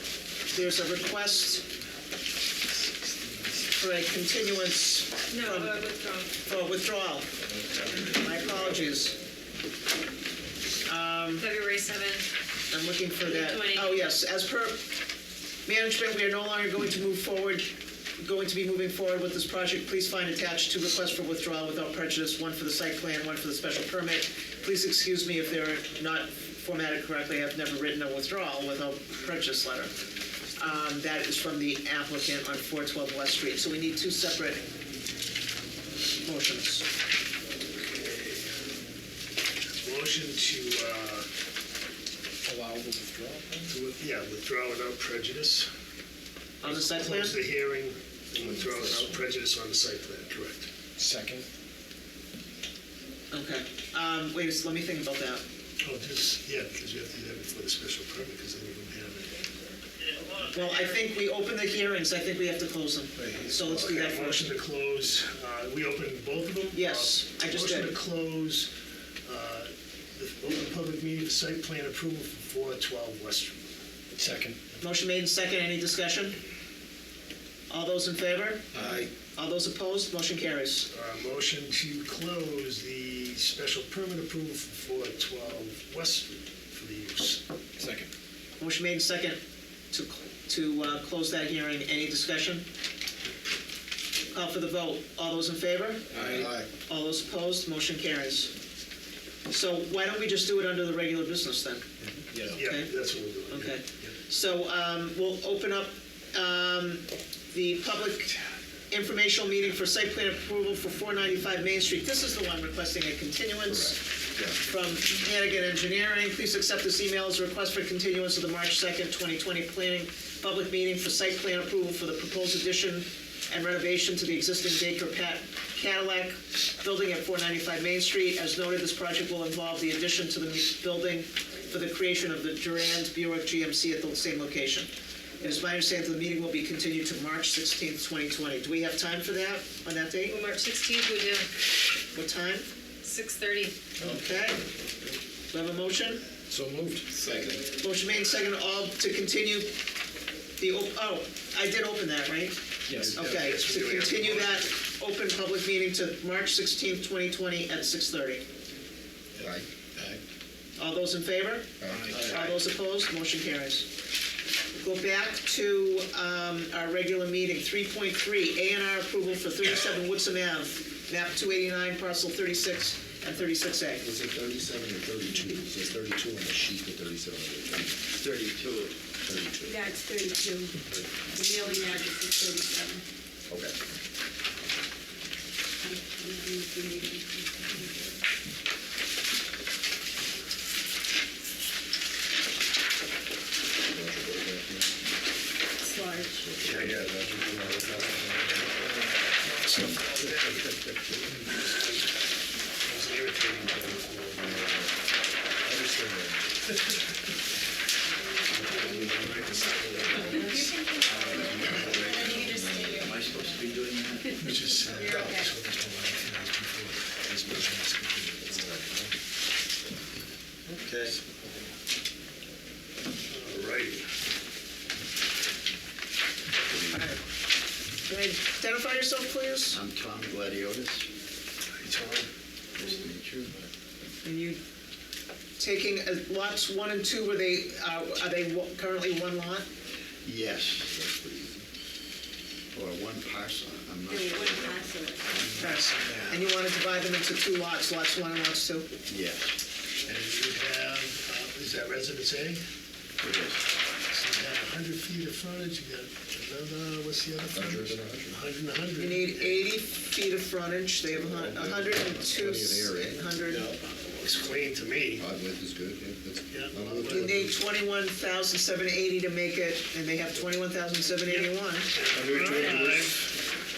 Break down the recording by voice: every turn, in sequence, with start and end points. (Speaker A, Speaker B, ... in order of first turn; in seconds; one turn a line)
Speaker A: 0.5-1.6
Speaker B: 2.9-3.6
Speaker A: 3.8-5.8
Speaker C: 5.3-6.3
Speaker A: 6.4-7.3
Speaker A: 7.9-9.1
Speaker A: 10.8-11.5
Speaker C: 11.4-12.3
Speaker A: 12.7-14.8
Speaker C: 13.2-14.1
Speaker A: 15.7-29.9
Speaker A: 30.6-34.6
Speaker A: 36.2-36.9
Speaker D: 37.7-38.7
Speaker D: 39.8-41.3
Speaker B: 42.5-43.7
Speaker D: 43.7-45.7
Speaker A: 46.6-47.4
Speaker D: 46.6-50.7
Speaker B: 48.4-49.1
Speaker B: 51.0-51.5
Speaker A: 53.3-55.4
Speaker D: 55.8-59.5
Speaker A: 60.5-64.5
Speaker B: 63.2-63.6
Speaker D: 63.6-68.7
Speaker A: 66.7-68.0
Speaker D: 69.2-73.7
Speaker B: 74.1-74.6
Speaker A: 74.8-76.4
Speaker A: 77.7-80.9
Speaker B: 78.7-79.1
Speaker D: 80.9-87.4
Speaker B: 87.8-88.1
Speaker A: 88.6-89.4
Speaker A: 89.9-92.7
Speaker A: 94.3-96.1
Speaker B: 96.1-96.7
Speaker E: 96.2-96.5
Speaker A: 96.9-98.5
Speaker A: 99.5-101.8
Speaker B: 102.0-102.6
Speaker D: 102.5-104.2
Speaker A: 102.5-102.9
Speaker A: 103.5-108.3
Speaker A: 108.9-114.0
Speaker E: 113.7-114.6
Speaker A: 114.6-134.9
Speaker A: 135.4-140.4
Speaker C: 140.3-141.5
Speaker A: 142.1-142.7
Speaker C: 143.0-143.8
Speaker A: 144.0-144.6
Speaker A: 145.5-146.2
Speaker B: 146.5-147.7
Speaker A: 147.8-149.7
Speaker A: 150.6-152.6
Speaker B: 152.9-153.3
Speaker D: 153.0-154.8
Speaker A: 153.1-158.4
Speaker E: 159.4-159.7
Speaker B: 159.4-160.2
Speaker A: 160.8-163.9
Speaker E: 161.8-162.4
Speaker B: 161.8-162.6
Speaker A: 164.8-174.0
Speaker E: 174.0-178.0
Speaker F: 178.1-179.0
Speaker E: 179.2-179.8
Speaker G: 179.6-183.0
Speaker E: 183.5-183.8
Speaker G: 185.8-188.2
Speaker E: 193.9-194.9
Speaker G: 195.8-196.6
Speaker E: 196.3-198.9
Speaker D: 196.6-197.8
Speaker D: 199.4-200.6
Speaker E: 200.2-201.4
Speaker D: 201.5-202.0
Speaker D: 202.8-204.8
Speaker E: 204.3-204.9
Speaker E: 205.6-206.5
Speaker D: 208.5-210.8
Speaker G: 210.4-211.4
Speaker F: 211.1-212.3
Speaker E: 211.2-213.2
Speaker D: 211.6-212.1
Speaker G: 212.0-213.3
Speaker F: 212.9-214.4
Speaker D: 214.4-218.6
Speaker G: 214.9-215.5
Speaker E: 218.5-219.1
Speaker D: 220.7-221.1
Speaker B: 220.9-221.4
Speaker D: 223.3-224.1
Speaker F: 226.7-227.1
Speaker A: 226.9-227.2
Speaker A: 228.1-229.8
Speaker F: 229.7-231.1
Speaker D: 231.7-232.3
Speaker F: 232.8-233.7
Speaker A: 234.2-234.6
Speaker A: 235.6-239.7
Speaker F: 240.2-241.6
Speaker F: 242.7-245.7
Speaker G: 244.1-245.5
Speaker A: 245.6-248.9
Speaker F: 249.1-249.5
Speaker D: 250.1-252.6
Speaker F: 253.2-253.6
Speaker D: 254.1-259.7
Speaker E: 257.5-258.4
Speaker A: 259.0-263.7
Speaker E: 261.1-263.2
Speaker D: 263.8-265.2
Speaker E: 265.2-267.6
Speaker D: 266.5-267.4
Speaker A: 267.1-272.6
Speaker D: 271.2-273.3
Speaker B: 272.1-273.1